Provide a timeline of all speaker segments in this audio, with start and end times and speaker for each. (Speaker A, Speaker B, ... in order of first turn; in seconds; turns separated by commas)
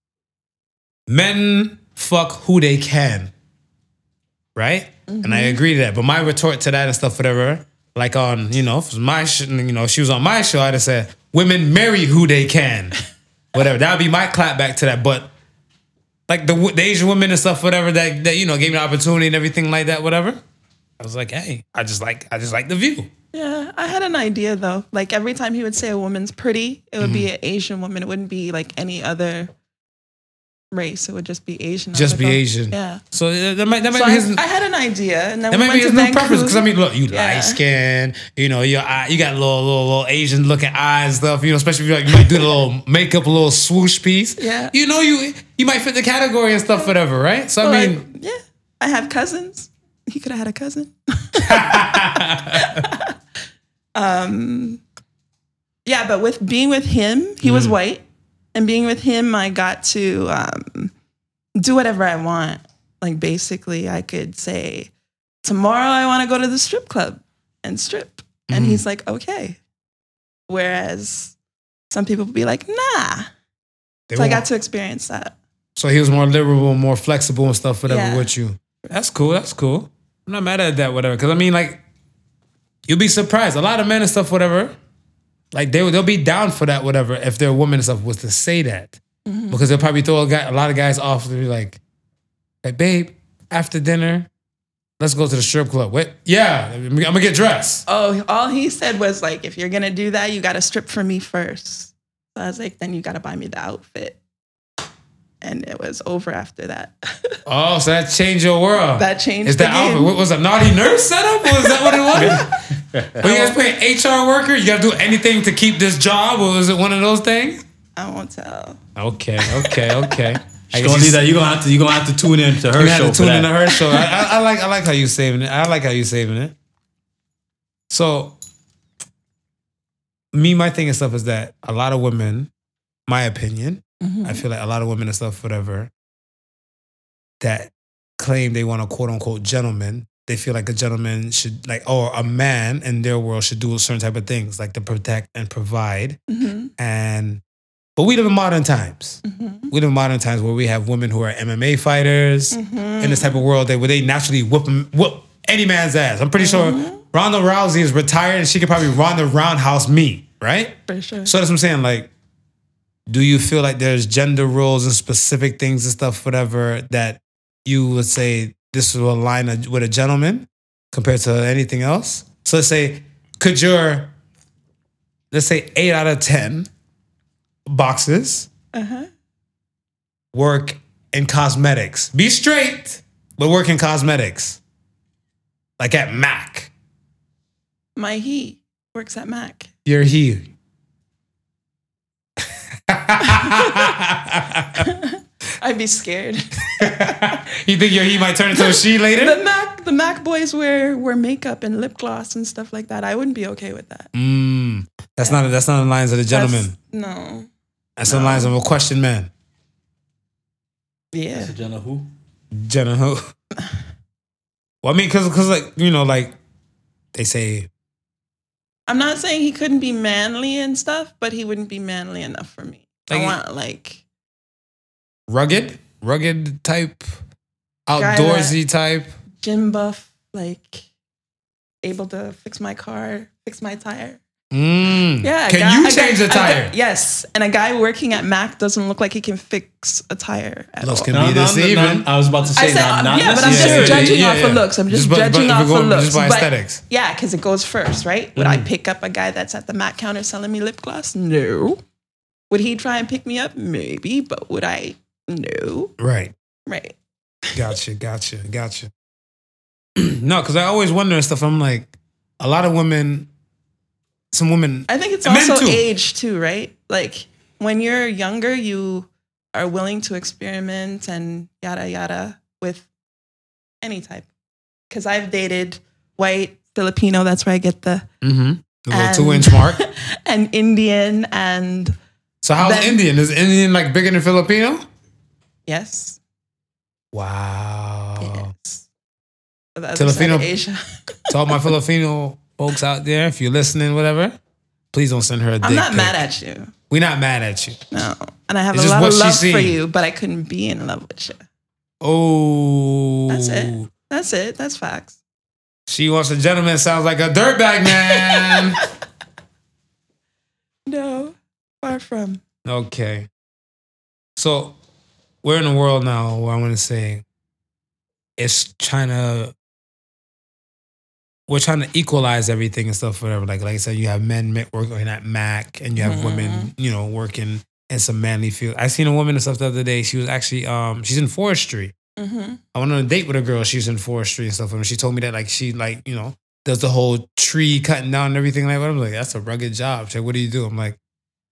Speaker A: 1.1-3.3, Speaker A: 4.5-12.9, Speaker B: 5.1-5.6, Speaker A: 13.5-15.3, Speaker A: 16.3-20.4, Speaker A: 21.0-23.1, Speaker B: 23.3-29.5, Speaker A: 27.0-27.3, Speaker B: 30.7-33.0, Speaker A: 31.9-34.4, Speaker B: 33.9-37.6, Speaker A: 35.5-48.0, Speaker B: 44.4-44.7, Speaker B: 47.6-53.1, Speaker A: 51.4-52.8, Speaker B: 53.9-54.8, Speaker B: 55.9-58.0, Speaker A: 57.4-57.7, Speaker B: 58.5-60.9, Speaker B: 61.6-64.9, Speaker B: 65.4-69.6, Speaker A: 68.5-68.8, Speaker B: 70.5-71.4, Speaker B: 71.9-73.3, Speaker A: 74.1-74.4, Speaker B: 74.1-75.3, Speaker A: 75.8-81.8, Speaker B: 77.9-78.3, Speaker A: 82.9-84.7, Speaker A: 85.5-89.0, Speaker B: 89.2-89.6, Speaker A: 89.5-91.8, Speaker A: 92.6-94.3, Speaker A: 95.0-97.8, Speaker B: 97.9-104.2, Speaker B: 105.4-107.4, Speaker A: 107.5-112.5, Speaker B: 109.0-110.1, Speaker B: 111.5-112.7, Speaker C: 112.1-113.2, Speaker A: 113.2-117.6, Speaker B: 113.2-113.5, Speaker B: 118.0-118.8, Speaker A: 119.0-121.2, Speaker C: 120.7-123.5, Speaker A: 122.7-126.5, Speaker A: 127.9-128.4, Speaker A: 130.3-132.5, Speaker A: 133.1-135.9, Speaker B: 134.0-134.4, Speaker A: 137.4-146.2, Speaker B: 146.3-146.7, Speaker A: 146.8-147.4, Speaker A: 147.9-162.1, Speaker B: 149.2-149.7, Speaker B: 152.5-153.4, Speaker B: 156.4-157.0, Speaker B: 160.9-161.3, Speaker A: 163.1-174.1, Speaker A: 175.3-176.7, Speaker A: 177.7-178.5, Speaker B: 178.7-179.1, Speaker A: 180.3-184.6, Speaker A: 185.8-186.7, Speaker B: 187.9-189.7, Speaker A: 189.9-190.5, Speaker A: 192.9-194.9, Speaker B: 194.8-197.4, Speaker A: 196.8-199.4, Speaker B: 198.5-204.1, Speaker A: 204.1-206.7, Speaker B: 206.3-207.5, Speaker A: 208.0-209.3, Speaker B: 208.1-208.5, Speaker B: 211.1-211.5, Speaker C: 211.3-212.1, Speaker A: 212.5-213.3, Speaker A: 214.8-216.3, Speaker A: 217.1-217.7, Speaker B: 218.9-224.0, Speaker A: 223.1-223.4, Speaker A: 225.3-227.1, Speaker A: 227.9-229.1, Speaker B: 228.0-228.5, Speaker B: 229.4-230.9, Speaker B: 231.8-234.2, Speaker A: 234.5-236.7, Speaker B: 235.2-241.2, Speaker A: 240.8-242.1, Speaker C: 241.1-244.2, Speaker B: 242.5-251.8, Speaker A: 243.4-246.8, Speaker A: 248.4-248.7, Speaker B: 252.5-255.9, Speaker A: 256.0-256.3, Speaker B: 256.7-257.0, Speaker A: 257.5-258.9, Speaker A: 260.0-263.3, Speaker A: 264.3-265.8, Speaker B: 264.9-272.9, Speaker B: 273.8-274.3, Speaker B: 274.9-278.1, Speaker A: 278.2-279.8, Speaker B: 278.9-282.0, Speaker A: 282.4-284.8, Speaker B: 282.6-283.0, Speaker B: 285.7-286.2, Speaker A: 287.1-288.5, Speaker B: 288.2-288.9, Speaker B: 289.8-291.6, Speaker A: 289.9-290.5, Speaker A: 291.3-294.3, Speaker A: 294.9-296.2, Speaker B: 295.6-296.7, Speaker A: 296.9-297.8, Speaker B: 297.9-301.4, Speaker A: 298.7-299.8, Speaker A: 302.0-303.9, Speaker B: 303.3-305.2, Speaker A: 305.9-308.8, Speaker B: 308.3-308.8, Speaker B: 310.9-312.4, Speaker A: 312.6-313.3, Speaker A: 314.4-314.7, Speaker A: 315.4-317.2, Speaker A: 318.4-319.5, Speaker A: 321.5-331.9, Speaker B: 326.0-326.7, Speaker B: 332.2-332.6, Speaker A: 332.7-341.0